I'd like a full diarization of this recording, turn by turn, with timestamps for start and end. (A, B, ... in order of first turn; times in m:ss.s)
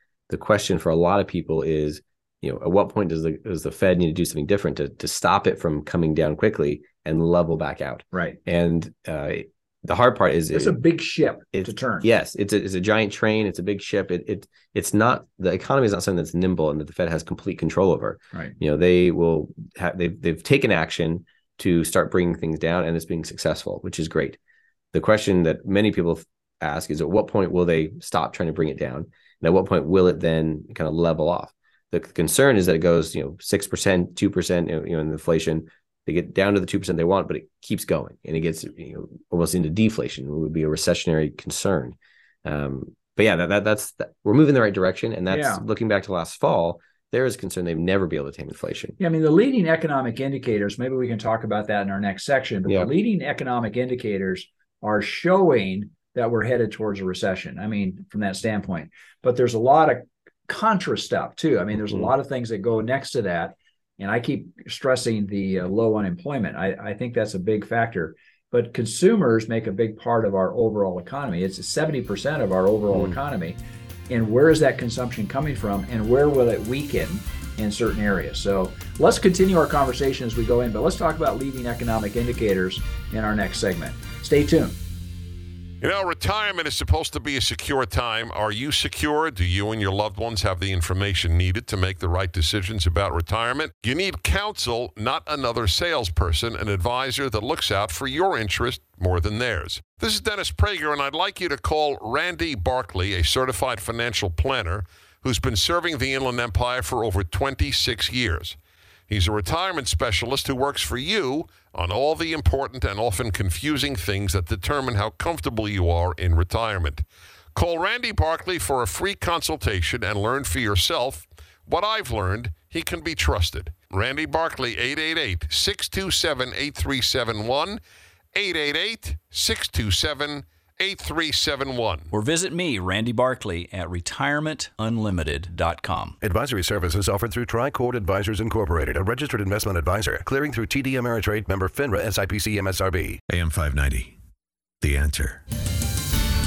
0:00.3-0:10.8 A
0:10.5-0:12.1 B
0:11.5-0:24.4 A
0:24.9-0:49.0 A
0:45.3-0:45.6 B
0:49.0-1:13.6 B
1:14.1-1:24.8 B
1:25.8-1:48.6 C
1:49.1-1:57.0 C
1:57.6-2:07.8 C
2:08.3-2:12.1 C
2:12.1-2:16.1 D
2:16.2-2:24.1 E
2:24.8-2:25.4 E